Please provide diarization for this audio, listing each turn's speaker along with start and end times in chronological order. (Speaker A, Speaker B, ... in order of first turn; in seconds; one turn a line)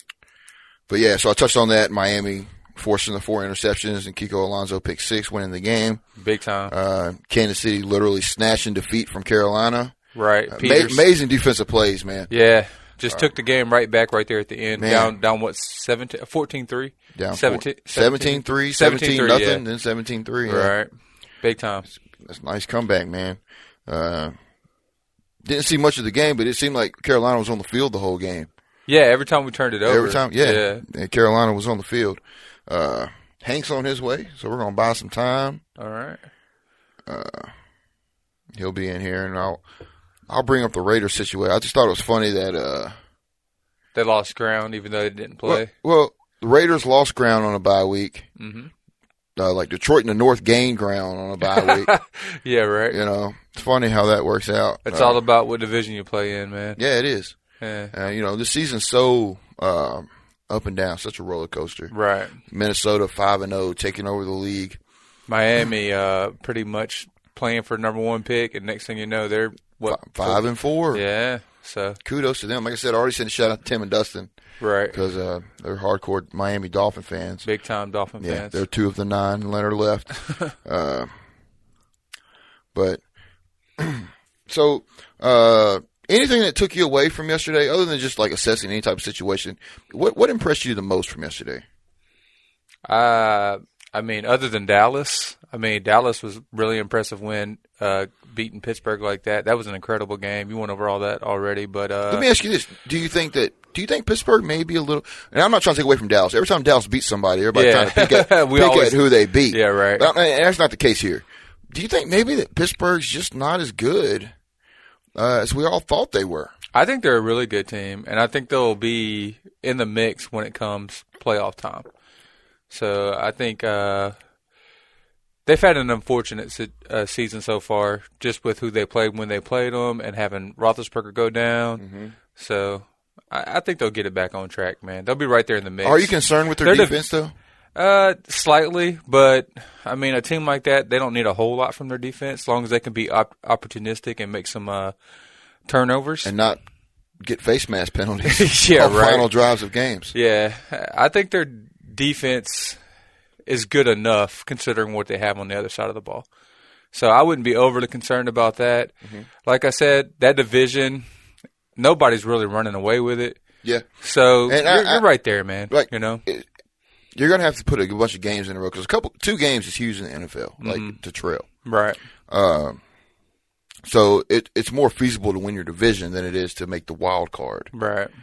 Speaker A: 0.9-6.0
Speaker B: 6.2-6.7
Speaker A: 6.7-9.9
Speaker B: 10.1-11.0
Speaker A: 10.5-12.3
Speaker B: 12.3-19.6
Speaker A: 14.8-15.1
Speaker A: 17.1-20.7
Speaker B: 20.4-20.9
Speaker B: 21.4-21.9
Speaker A: 22.1-24.3
Speaker A: 25.4-28.5
Speaker B: 28.9-30.8
Speaker A: 29.9-35.6
Speaker B: 35.8-36.2
Speaker A: 37.0-37.5
Speaker A: 38.5-39.6
Speaker A: 40.3-42.9
Speaker B: 43.9-45.7
Speaker A: 45.4-48.3
Speaker B: 48.4-48.7
Speaker A: 49.4-51.9
Speaker B: 51.5-53.0
Speaker A: 52.9-55.2
Speaker B: 54.9-56.8
Speaker A: 56.8-57.4
Speaker B: 57.6-57.9
Speaker A: 57.9-61.9
Speaker B: 61.9-62.4
Speaker A: 62.5-64.8
Speaker B: 65.3-72.0
Speaker A: 69.9-71.0
Speaker A: 72.0-74.3
Speaker B: 74.6-75.0
Speaker A: 74.9-77.5
Speaker B: 77.4-78.6
Speaker A: 78.2-81.1
Speaker A: 82.7-83.0
Speaker A: 83.8-91.6
Speaker B: 92.8-102.2
Speaker A: 102.1-114.3
Speaker B: 107.5-110.1
Speaker A: 115.2-116.5
Speaker B: 116.7-121.9
Speaker B: 122.7-124.2
Speaker B: 125.5-131.8
Speaker A: 131.8-132.1
Speaker B: 132.3-137.0
Speaker A: 135.8-137.3
Speaker B: 137.8-144.9
Speaker B: 145.7-146.3
Speaker A: 146.2-146.6
Speaker A: 147.2-150.1
Speaker B: 148.2-149.3
Speaker B: 150.1-152.8
Speaker B: 153.5-156.3
Speaker B: 156.9-158.9
Speaker B: 159.4-161.0
Speaker B: 161.8-163.4
Speaker B: 164.0-166.2
Speaker A: 164.4-165.1
Speaker A: 165.7-166.4
Speaker A: 167.1-171.5
Speaker B: 170.6-171.0
Speaker B: 171.6-172.0
Speaker A: 172.3-172.8
Speaker A: 173.8-177.7
Speaker B: 177.7-178.1